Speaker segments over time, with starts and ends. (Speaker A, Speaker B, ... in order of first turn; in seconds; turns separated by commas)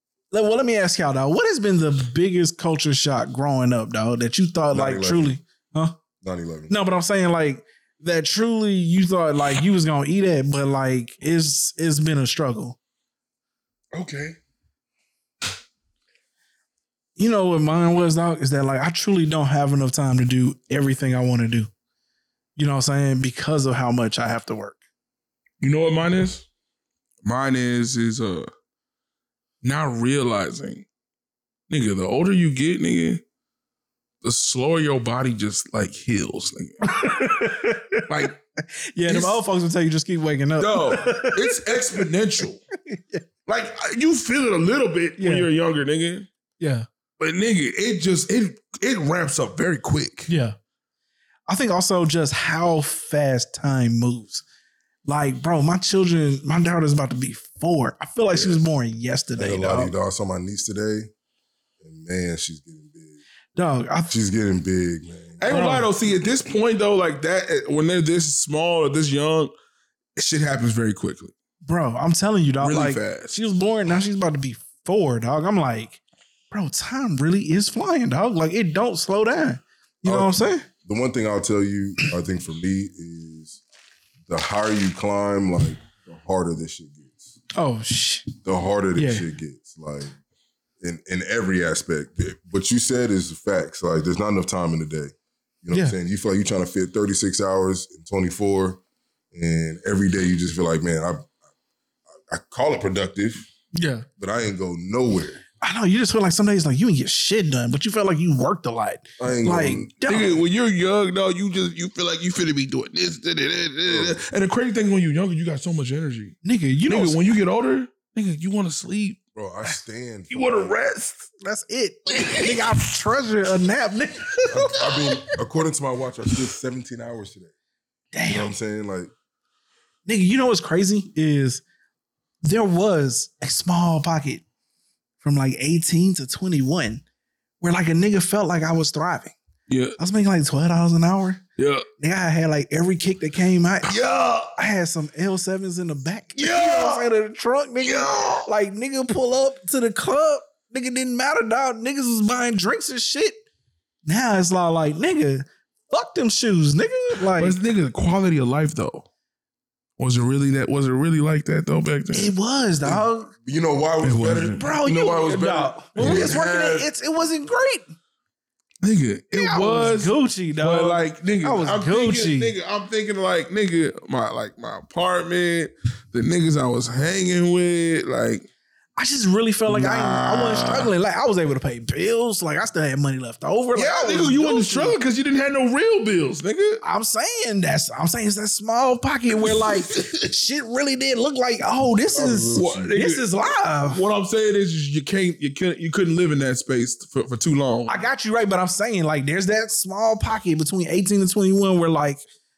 Speaker A: 0.3-6.0, Speaker B: 4.7-5.3, Speaker B: 6.2-6.7, Speaker A: 6.7-12.8, Speaker C: 13.9-14.4, Speaker A: 17.2-21.7, Speaker A: 22.6-24.8, Speaker C: 25.6-26.4, Speaker C: 27.2-28.5, Speaker C: 29.6-30.8, Speaker C: 31.7-33.2, Speaker C: 34.2-37.3, Speaker A: 36.9-38.3, Speaker C: 38.1-38.4, Speaker A: 38.9-42.0, Speaker C: 39.1-39.4, Speaker C: 40.6-42.6, Speaker A: 42.9-43.2, Speaker C: 43.5-46.3, Speaker A: 45.2-45.5, Speaker A: 46.6-46.9, Speaker C: 47.2-50.3, Speaker A: 50.3-50.5, Speaker A: 51.5-54.4, Speaker A: 55.0-59.9, Speaker B: 59.4-61.1, Speaker B: 61.8-63.2, Speaker A: 63.5-64.1, Speaker B: 64.1-65.5, Speaker C: 65.4-69.5, Speaker A: 65.5-65.9, Speaker C: 70.2-71.3, Speaker A: 71.6-76.0, Speaker C: 72.6-73.4, Speaker A: 76.5-80.7, Speaker B: 80.0-83.6, Speaker B: 84.3-87.3, Speaker A: 87.5-88.3, Speaker B: 88.4-90.1, Speaker A: 89.0-89.2, Speaker B: 90.8-95.1, Speaker B: 95.6-98.8, Speaker B: 99.3-101.3, Speaker B: 102.3-103.5, Speaker A: 103.7-104.0, Speaker B: 104.2-105.4, Speaker A: 105.6-110.4, Speaker B: 109.2-109.9, Speaker C: 110.1-116.4, Speaker B: 113.9-114.2, Speaker A: 116.4-117.2, Speaker C: 116.9-119.2, Speaker B: 119.3-120.7, Speaker C: 120.3-121.3, Speaker A: 121.4-125.1, Speaker C: 122.1-122.7, Speaker B: 124.5-127.5, Speaker A: 128.1-128.5, Speaker B: 128.3-129.1, Speaker A: 130.1-131.6, Speaker A: 132.4-134.4, Speaker A: 135.2-137.0, Speaker A: 137.6-139.3, Speaker C: 139.7-140.0, Speaker A: 140.0-141.4, Speaker C: 141.6-141.8, Speaker A: 142.0-144.0, Speaker C: 143.8-144.5, Speaker A: 144.5-153.4, Speaker C: 146.3-147.0, Speaker C: 147.8-148.5, Speaker A: 154.1-157.6, Speaker C: 157.3-159.1, Speaker C: 160.0-162.3, Speaker A: 162.1-163.3, Speaker B: 162.8-166.9, Speaker C: 164.0-164.7, Speaker A: 164.6-167.9, Speaker C: 165.9-166.3, Speaker C: 168.8-178.5, Speaker A: 169.3-172.5, Speaker A: 179.0-185.0, Speaker C: 179.7-180.9, Speaker C: 183.7-186.8, Speaker A: 186.8-194.0, Speaker C: 189.5-190.1, Speaker B: 192.1-192.9, Speaker C: 192.5-198.0, Speaker A: 197.9-202.2